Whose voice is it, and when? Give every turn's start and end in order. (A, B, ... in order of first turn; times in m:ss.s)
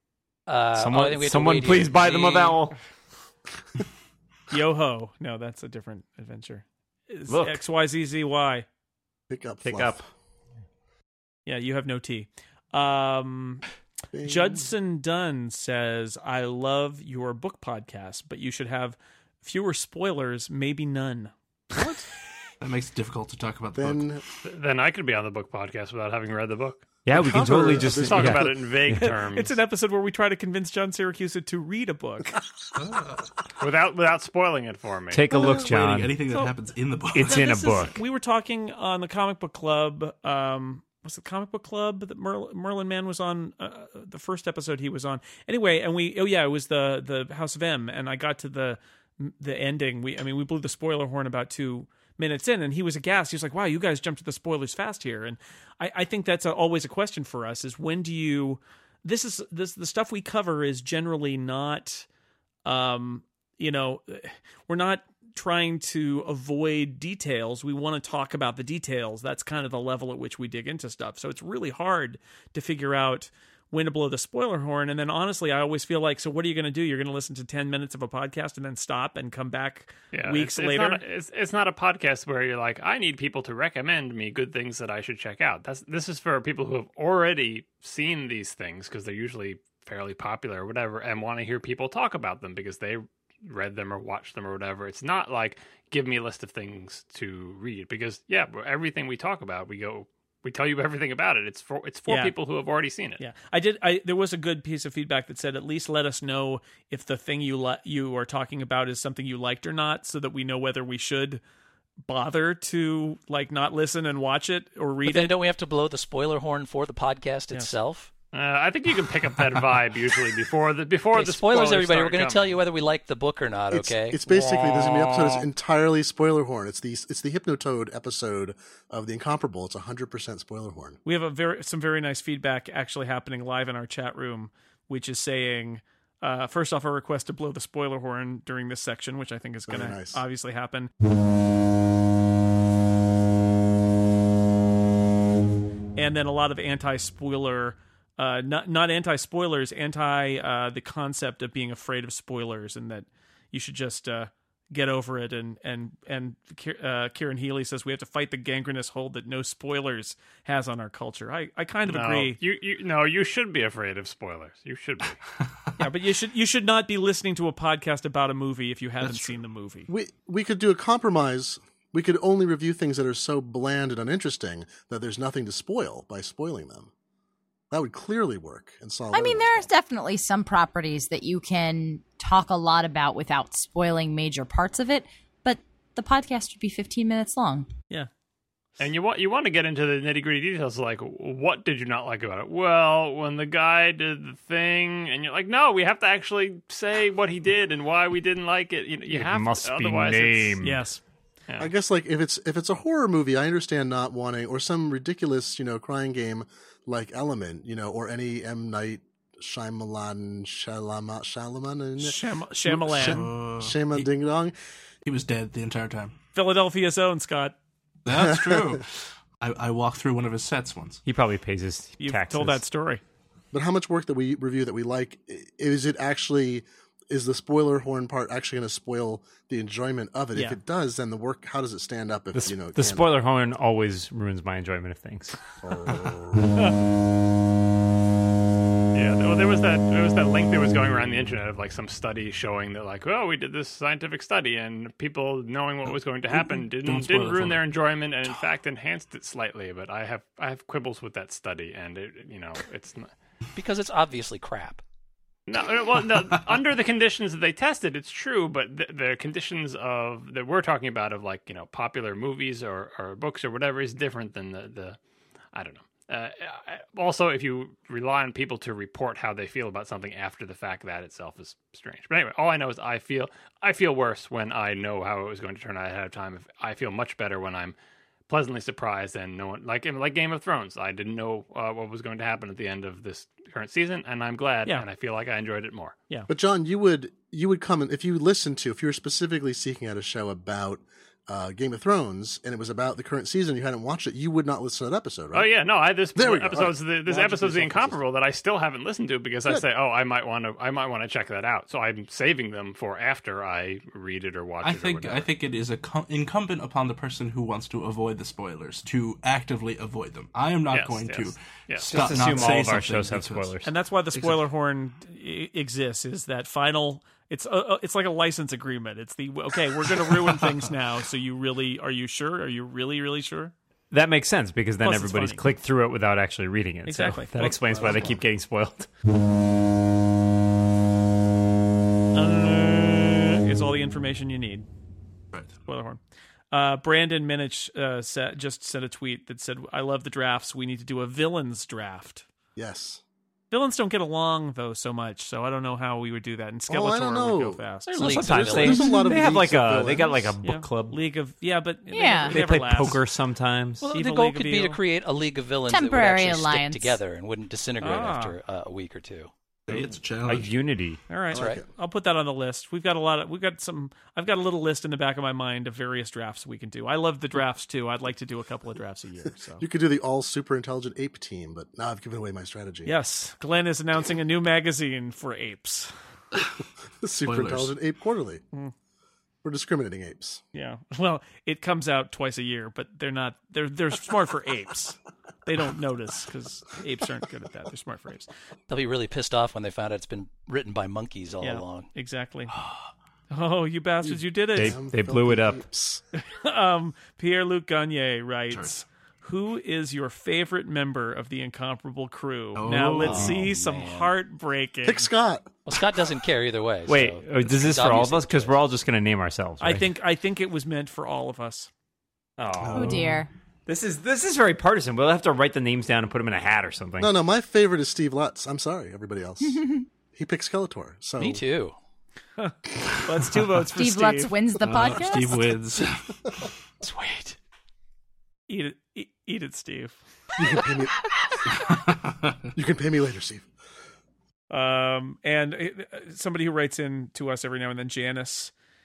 0:00.5-0:02.6 A
0:00.8-0:02.8 B
0:04.5-0:08.7 C
0:07.3-0:07.6 B
0:09.3-0:10.1 D
0:09.6-0:10.0 B
0:11.5-0:13.6 C
0:14.1-0:14.7 D
0:14.2-0:21.3 C
0:21.7-0:22.1 D
0:22.6-0:24.1 E
0:23.8-0:24.2 D
0:24.4-0:26.9 F
0:27.1-0:29.1 B
0:27.1-0:28.6 D
0:27.9-0:29.6 F
0:29.0-0:32.4 C
0:32.8-0:33.3 E
0:33.6-0:35.2 F
0:35.1-0:36.2 B
0:35.3-0:37.5 E
0:37.1-0:38.0 B
0:37.2-1:02.1 C
1:02.6-1:21.0 C
1:20.1-1:43.2 F
1:42.1-1:42.3 C
1:43.2-1:51.4 C
1:52.0-1:55.4 C
1:55.1-1:58.1 A
1:58.3-2:02.6 F
2:01.1-2:04.2 A
2:03.7-2:11.0 D
2:04.3-2:05.5 F
2:11.0-2:20.9 C
2:19.7-2:20.2 D
2:26.0-2:42.4 C
2:41.9-2:45.2 F
2:45.8-2:49.9 C
2:49.0-2:49.4 E
2:49.9-2:56.9 D
2:57.7-2:59.7 D
2:59.1-3:07.7 G
3:08.8-3:20.6 F
3:19.1-3:20.8 B
3:20.6-3:21.0 C
3:21.6-3:34.5 D
3:32.0-3:33.2 C
3:33.0-3:34.1 E
3:35.0-3:36.2 E
3:36.3-3:37.6 C
3:38.0-3:41.0 E
3:41.0-3:42.6 B
3:42.0-3:43.0 C
3:43.5-3:53.1 D
3:52.3-3:55.4 B
3:55.6-3:56.5 D
3:58.9-4:13.1 F
4:06.3-4:07.6 E
4:13.6-4:14.8 A
4:15.5-4:25.0 F
4:16.1-4:16.4 E
4:25.5-4:37.8 F
4:38.3-4:46.0 F
4:46.3-4:55.5 D
4:55.3-5:05.3 F
4:56.1-4:58.0 D
5:04.6-5:13.6 E
5:10.7-5:12.4 F
5:11.9-5:13.7 B
5:13.6-5:23.5 C
5:14.1-5:14.4 E
5:23.9-5:28.9 B
5:24.8-5:25.4 C
5:26.8-5:28.0 C
5:32.2-5:34.7 C
5:35.6-5:36.0 C
5:36.5-5:42.3 C
5:42.6-5:43.0 D
5:43.5-5:47.9 C
5:46.7-5:47.6 D
5:47.9-5:48.9 A
5:47.9-5:51.0 B
5:48.4-5:50.4 D
5:48.7-5:49.1 G
5:50.4-5:53.0 C
5:51.9-5:52.4 G
5:52.3-5:53.9 B
5:53.8-5:59.3 A
5:53.9-5:54.8 C
5:55.7-5:57.0 G
5:57.8-5:58.4 C
5:59.7-6:00.6 E
6:00.2-6:01.0 B
6:01.1-6:09.6 C
6:01.3-6:01.7 D
6:01.3-6:01.6 A
6:09.6-6:12.9 D
6:12.8-6:15.9 C
6:17.0-6:18.4 D
6:17.2-6:17.7 E
6:19.4-6:20.4 D
6:20.5-6:28.3 C
6:28.7-6:31.9 A
6:31.4-6:32.5 C
6:33.3-6:34.8 C
6:34.0-6:36.0 D
6:34.6-6:35.6 B
6:36.2-6:45.1 C
6:38.5-6:38.8 E
6:42.6-6:43.4 E
6:43.0-6:44.1 A
6:44.8-6:45.6 D
6:45.7-6:48.6 A
6:46.9-6:49.9 B
6:49.6-6:51.7 C
6:52.4-6:53.0 B
6:52.6-6:53.3 E
6:52.7-6:53.3 G
6:53.7-6:57.1 B
6:57.0-7:01.4 D
6:59.5-6:59.8 G
7:01.2-7:01.8 A
7:02.4-7:04.4 C
7:03.7-7:05.6 G
7:04.6-7:06.5 E
7:06.8-7:07.4 A
7:08.5-7:10.0 C
7:10.4-7:11.1 D
7:11.5-7:12.5 E
7:12.6-7:13.5 D
7:14.5-7:18.5 C